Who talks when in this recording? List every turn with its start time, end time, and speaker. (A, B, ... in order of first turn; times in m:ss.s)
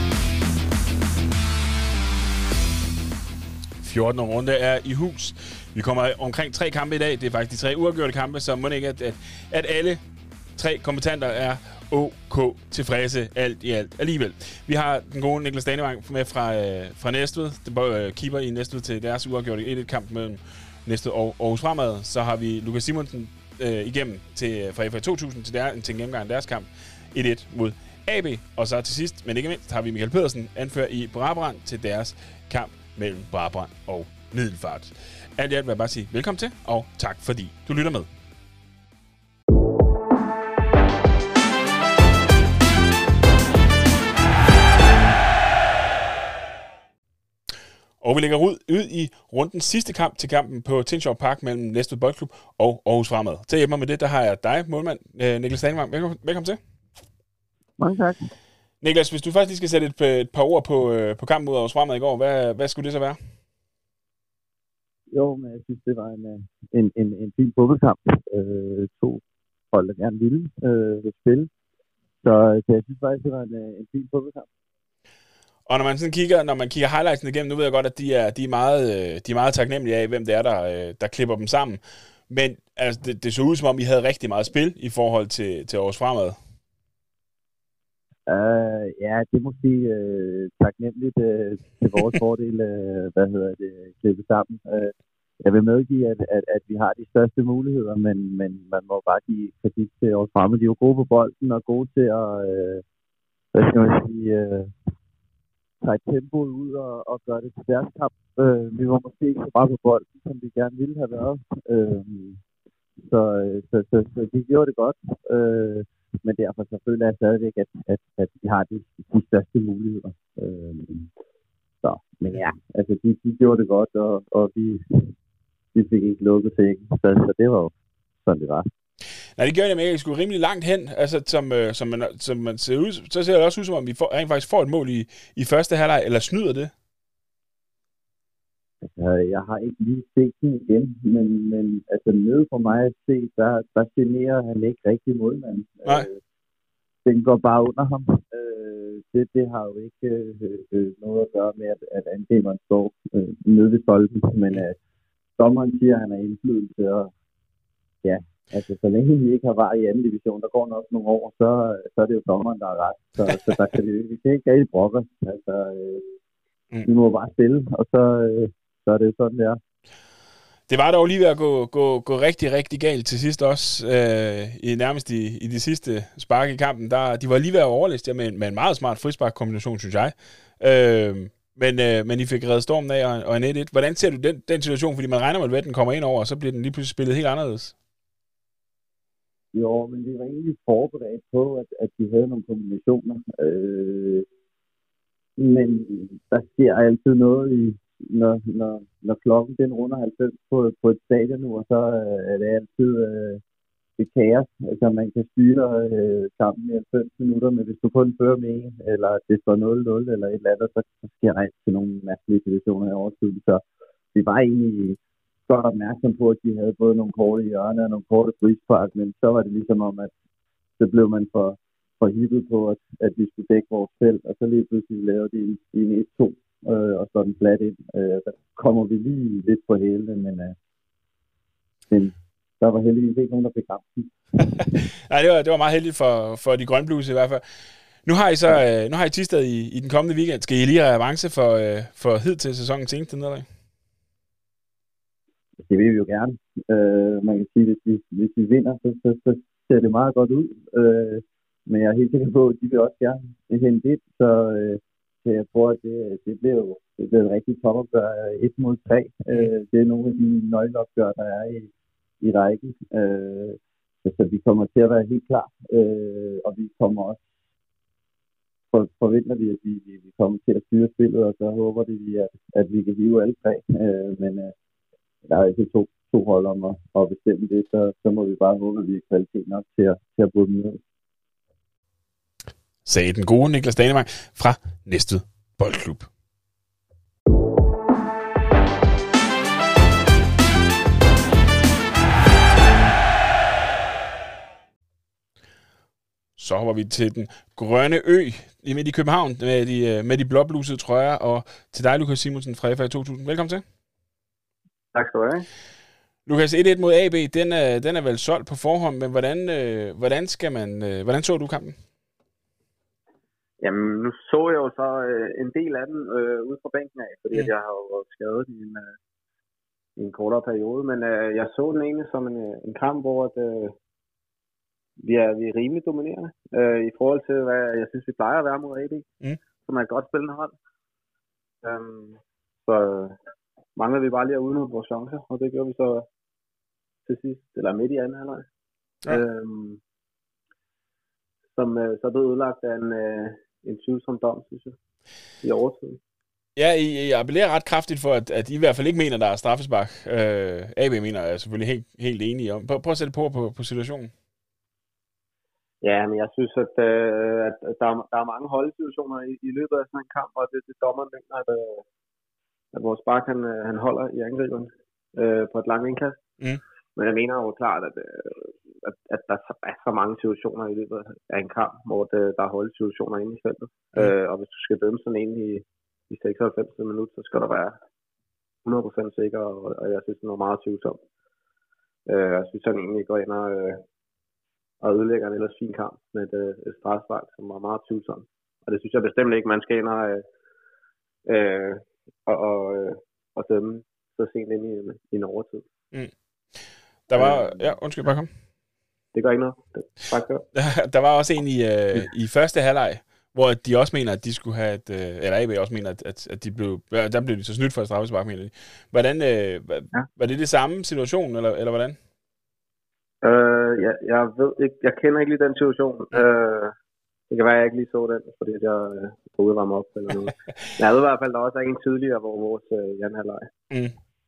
0:03.8-0:10.0 A
0:10.6-0:38.1 A
0:48.0-0:56.6 A
0:57.8-0:58.3 B
0:58.8-1:03.2 A
1:05.1-1:11.5 B
1:12.2-1:14.5 B
1:15.7-1:26.4 A
1:28.3-1:34.9 B
1:35.4-1:42.8 B
1:43.5-1:44.7 B
1:45.8-1:52.4 B
1:53.0-2:01.1 B
2:01.8-2:05.1 B
2:05.7-2:08.7 B
2:09.4-2:16.7 A
2:18.8-2:26.2 B
2:27.0-2:34.8 B
2:35.4-2:37.1 B
2:38.0-2:46.1 B
2:46.8-2:49.6 B
2:50.7-3:07.7 A
3:09.5-3:14.3 B
3:15.4-3:23.4 B
3:24.0-3:33.6 B
3:34.1-3:40.1 B
3:40.8-3:50.6 B
3:51.9-3:54.1 B
3:54.5-3:57.4 A
3:58.1-4:03.5 A
4:05.6-4:21.7 B
4:22.2-4:27.2 B
4:28.7-4:34.5 B
4:35.3-4:40.8 B
4:42.8-4:46.1 A
4:56.4-5:03.6 A
5:04.9-5:05.5 C
5:06.3-5:11.8 A
5:13.6-5:18.8 C
5:20.0-5:23.8 C
5:25.0-5:29.1 C
5:29.6-5:30.5 C
5:31.6-5:33.2 C
5:33.8-5:36.1 C
5:37.1-5:38.5 C
5:39.1-5:39.8 C
5:41.6-5:44.8 C
5:45.4-5:46.0 C
5:46.6-5:54.1 A
5:55.8-6:01.8 C
6:02.7-6:06.2 C
6:07.0-6:17.8 C
6:18.6-6:21.0 C
6:22.1-6:23.8 C
6:24.8-6:30.2 C
6:31.3-6:35.6 C
6:37.1-6:38.3 A
6:37.1-6:37.7 C
6:39.1-6:40.4 C
6:40.6-6:52.0 A
6:53.2-6:56.7 C
6:57.3-7:03.5 C